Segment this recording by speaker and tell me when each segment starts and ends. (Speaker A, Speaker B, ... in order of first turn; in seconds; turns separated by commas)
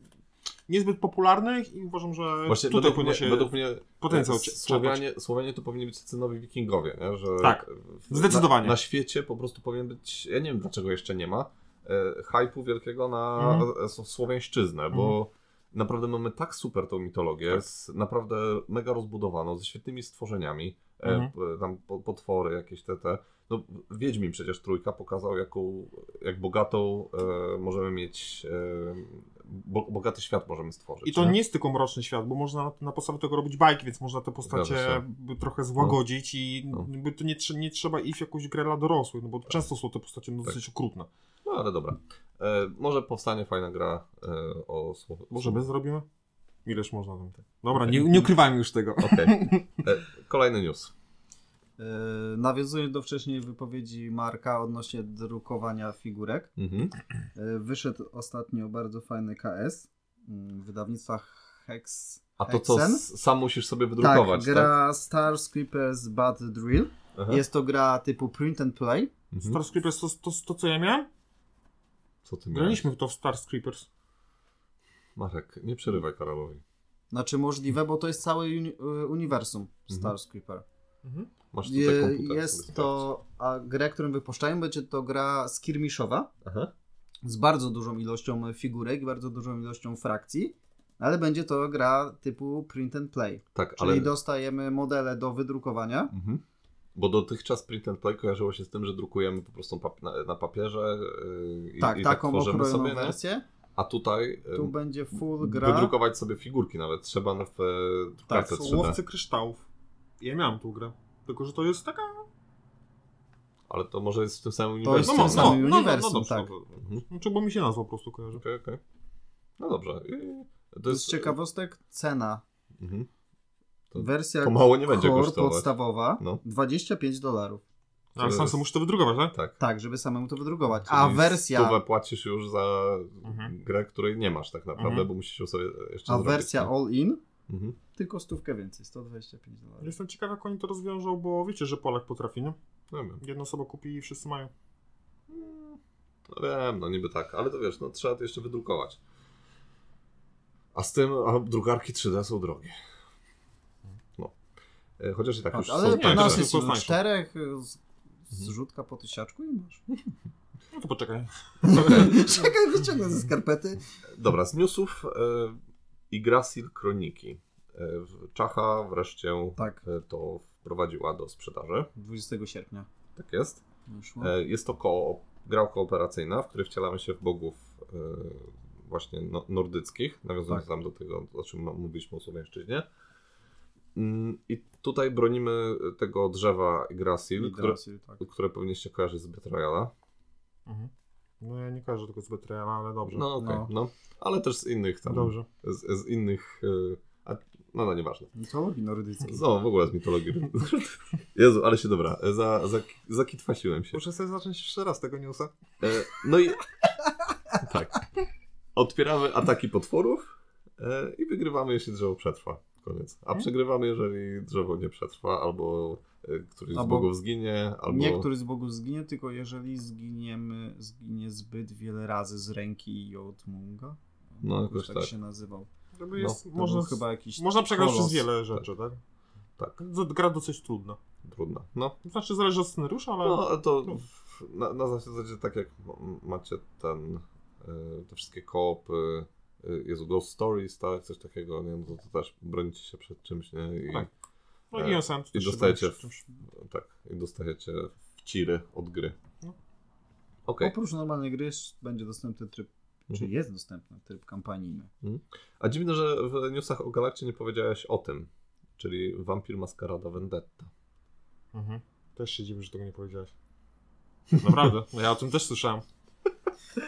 Speaker A: 0.7-5.0, Speaker B: 2.5-31.4, Speaker A: 7.4-8.8, Speaker A: 13.4-13.7, Speaker A: 21.0-21.3, Speaker A: 31.0-41.1, Speaker B: 34.5-35.0, Speaker B: 41.4-45.6, Speaker A: 45.3-46.0, Speaker A: 46.6-49.7, Speaker B: 47.7-48.3, Speaker B: 49.0-50.9, Speaker C: 51.8-56.5, Speaker B: 56.6-56.9, Speaker C: 57.3-63.0, Speaker B: 62.4-64.7, Speaker C: 64.0-69.1, Speaker B: 67.1-67.4, Speaker B: 69.3-69.6, Speaker A: 69.4-71.1, Speaker B: 72.2-72.9, Speaker A: 72.5-73.9, Speaker B: 75.2-76.6, Speaker C: 77.1-80.6, Speaker A: 81.0-81.3, Speaker B: 81.5-83.0, Speaker C: 81.6-86.3, Speaker B: 86.4-86.7, Speaker C: 87.2-96.1, Speaker B: 93.5-94.1, Speaker B: 96.1-96.4, Speaker B: 96.9-103.2, Speaker C: 101.8-103.4, Speaker B: 103.8-109.0, Speaker C: 104.5-105.9, Speaker C: 108.3-108.9, Speaker A: 108.4-109.6, Speaker A: 110.2-112.2, Speaker B: 113.7-115.6, Speaker C: 114.8-116.5, Speaker A: 115.0-118.4, Speaker B: 116.8-117.0, Speaker B: 118.3-118.8, Speaker B: 119.6-121.3, Speaker C: 120.9-122.4, Speaker B: 122.8-123.1, Speaker B: 123.9-126.4, Speaker C: 123.9-127.6, Speaker A: 128.2-129.3, Speaker B: 128.2-128.6, Speaker B: 129.3-129.6, Speaker C: 129.6-131.8, Speaker B: 130.8-136.7, Speaker A: 133.2-133.5, Speaker A: 134.8-135.1, Speaker C: 136.1-137.2, Speaker B: 137.5-137.8, Speaker C: 137.9-139.9, Speaker A: 139.8-142.6, Speaker B: 142.9-143.2, Speaker A: 143.2-144.5, Speaker B: 145.3-149.0, Speaker B: 150.7-152.7, Speaker B: 155.0-156.4, Speaker C: 155.5-159.8, Speaker A: 155.8-157.0, Speaker A: 160.7-162.3, Speaker C: 161.6-163.8, Speaker B: 161.7-162.2, Speaker B: 164.1-165.6, Speaker B: 166.1-171.9, Speaker C: 169.6-169.8, Speaker C: 171.9-172.9, Speaker B: 173.2-173.6, Speaker C: 173.9-174.3, Speaker B: 174.2-182.8, Speaker B: 183.9-189.9, Speaker C: 187.3-188.2, Speaker A: 190.7-193.3, Speaker B: 193.1-198.3, Speaker C: 193.3-193.7, Speaker A: 195.1-195.5, Speaker C: 198.3-199.4, Speaker B: 199.2-204.0, Speaker A: 203.9-205.5, Speaker B: 205.8-206.6, Speaker B: 207.5-208.1, Speaker B: 208.7-218.3, Speaker C: 216.7-217.1, Speaker C: 217.9-225.7, Speaker B: 224.4-225.1, Speaker A: 226.0-229.0, Speaker C: 226.5-228.3, Speaker A: 229.8-231.0, Speaker B: 231.2-232.0, Speaker A: 232.0-234.0, Speaker B: 233.2-244.1, Speaker A: 244.7-246.2, Speaker B: 244.7-249.2, Speaker B: 250.4-250.7, Speaker C: 250.6-254.9, Speaker B: 255.0-260.7, Speaker A: 261.5-263.3, Speaker A: 264.4-265.8